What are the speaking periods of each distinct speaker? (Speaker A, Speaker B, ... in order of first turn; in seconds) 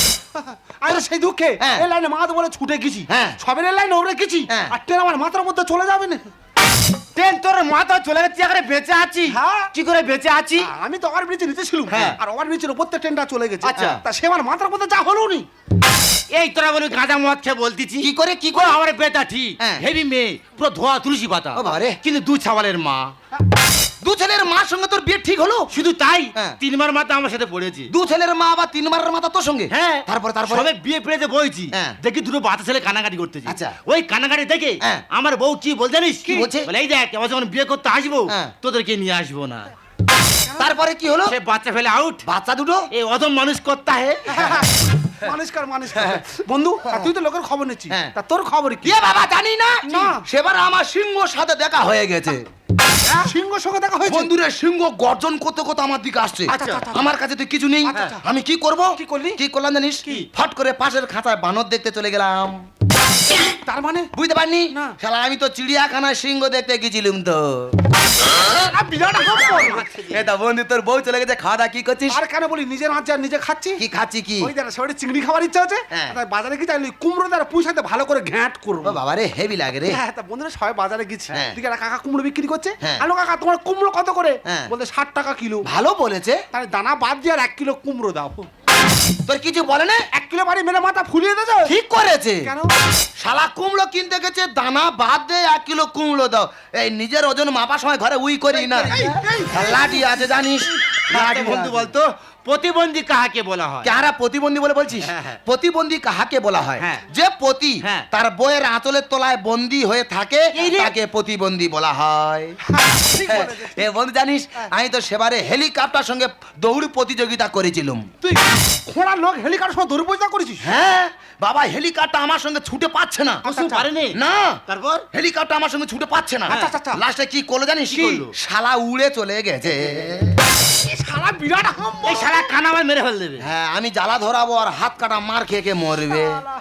Speaker A: 0.4-6.3, 9.3-9.7, 10.6-15.5, 44.3-49.0, 49.8-50.2, 53.1-54.3, 56.5-57.1, 57.9-58.2, 59.0-59.4, 63.5-64.1, 68.4-70.1, 72.1-73.8, 74.4-79.0, 79.9-85.7, 86.5-88.5, 90.1-91.8, 92.4-92.8, 98.7-99.9, 110.6-110.9, 112.7-113.8, 118.2-120.7, 123.5-123.9, 126.5-127.0, 130.7-132.5
Speaker B: 1.6-1.9, 3.1-3.4, 13.8-14.0, 18.0-18.8, 19.6-19.8, 21.5-22.0, 24.0-25.7, 27.9-30.7, 33.5-33.8, 36.2-36.7, 38.3-38.5, 40.6-41.4, 42.3-42.9, 45.9-46.2, 46.8-47.1, 48.8-52.5, 54.1-62.6, 64.1-67.8, 70.1-72.2, 73.8-74.5, 78.8-80.0, 84.5-84.7, 85.7-86.4, 89.3-90.1, 91.7-92.5, 93.2-101.9, 103.8-112.6, 113.2-118.1, 120.6-123.6, 124.1-124.6, 125.1-130.4, 133.4-136.4
Speaker C: 7.2-10.7, 11.9-12.2, 13.6-14.0, 16.3-23.1, 25.7-27.9, 29.7-39.7, 41.3-42.2, 42.9-44.4, 56.5-56.9, 69.4-70.0, 98.7-99.2, 101.1-103.9, 105.0-105.4, 106.8-107.0, 110.6-110.9, 123.4-125.0, 126.5-126.7, 127.9-128.3, 132.0-133.4